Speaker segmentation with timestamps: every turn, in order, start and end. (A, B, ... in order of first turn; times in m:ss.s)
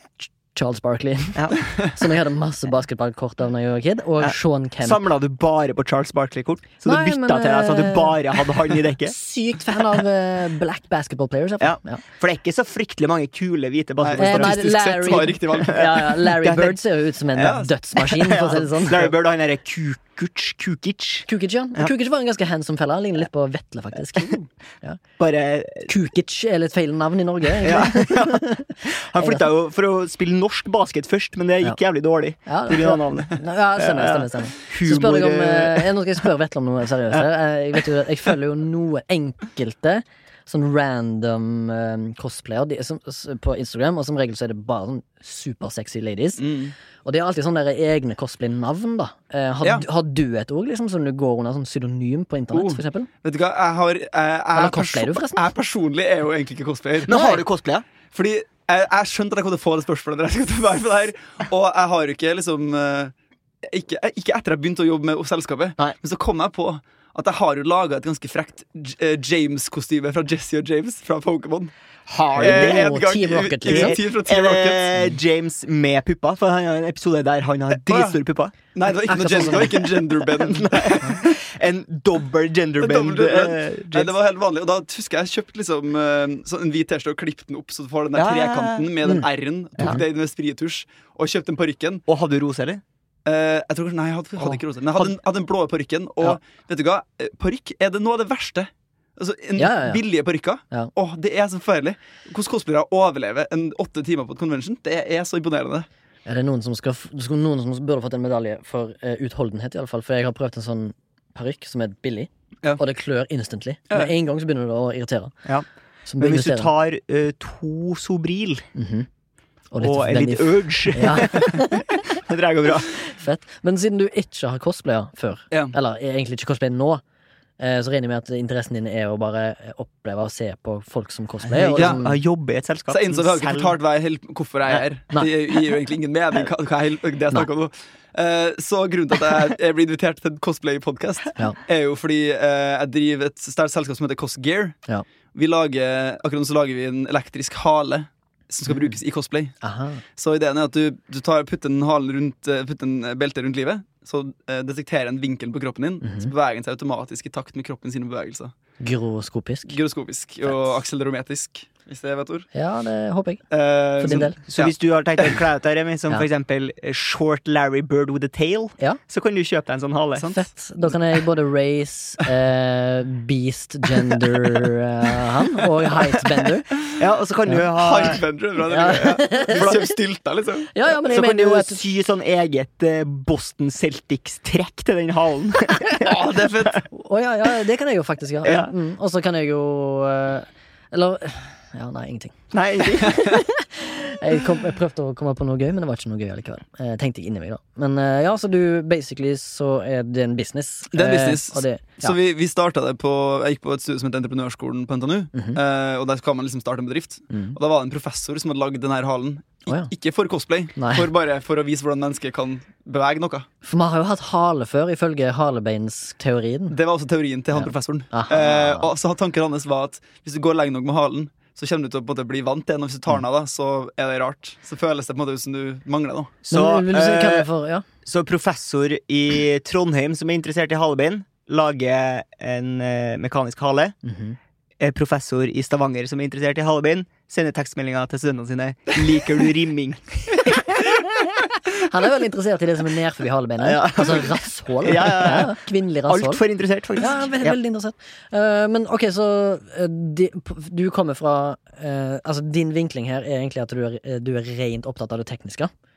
0:00.2-0:05.0 A
0:04.2-0:09.1 B
0:06.8-0:08.2 A
0:09.0-0:12.0 A
0:11.6-0:14.6 B
0:14.0-0:15.9 C
0:14.2-0:19.1 A
0:15.5-0:16.8 B
0:17.4-0:21.9 B
0:17.4-0:17.7 C
0:21.3-0:25.0 A
0:25.2-0:25.9 B
0:25.9-0:29.4 A
0:27.6-0:35.9 B
0:32.4-0:46.4 A
0:46.4-0:46.7 C
0:47.0-0:53.1 A
0:52.5-0:57.4 C
0:54.5-0:55.4 A
0:57.1-0:57.8 B
0:58.1-1:11.7 C
1:12.1-1:12.9 B
1:12.4-1:14.9 C
1:12.4-1:14.0 A
1:13.6-1:18.5 B
1:17.8-1:18.2 C
1:18.7-1:21.3 C
1:19.1-1:19.9 A
1:20.5-1:24.1 B
1:22.8-1:32.0 C
1:28.2-1:28.9 B
1:32.1-1:32.8 B
1:33.2-1:45.9 C
1:39.6-1:40.0 A
1:46.2-1:55.3 A
1:56.1-1:56.7 A
1:56.2-1:58.7 B
1:58.7-1:59.1 A
1:59.7-2:01.9 A
1:59.8-2:02.9 B
2:02.9-2:07.0 A
2:07.6-2:12.2 A
2:11.4-2:13.7 B
2:12.9-2:24.8 C
2:14.7-2:15.3 A
2:25.3-2:29.6 C
2:29.6-2:30.0 A
2:30.2-2:38.5 C
2:36.0-2:36.3 A
2:38.8-2:39.7 A
2:39.7-2:42.5 C
2:42.5-2:43.4 A
2:43.5-2:45.4 C
2:44.0-2:44.4 A
2:44.1-2:50.3 B
2:50.2-2:56.8 A
2:57.0-2:58.2 B
2:57.7-3:00.7 C
2:58.6-2:59.9 A
3:00.7-3:01.8 A
3:01.0-3:06.1 B
3:06.0-3:06.8 C
3:06.9-3:22.1 A
3:08.4-3:08.7 B
3:12.5-3:13.2 B
3:20.9-3:33.4 C
3:25.3-3:25.6 A
3:27.3-3:27.6 A
3:30.8-3:31.1 A
3:33.6-3:36.8 A
3:36.7-3:46.4 C
3:37.5-3:38.9 A
3:46.5-3:47.8 A
3:46.5-3:47.5 B
3:48.0-3:54.0 B
3:54.0-3:54.4 A
3:54.8-4:01.0 B
4:01.7-4:06.4 A
4:03.6-4:05.6 B
4:06.1-4:07.6 B
4:07.0-4:15.7 A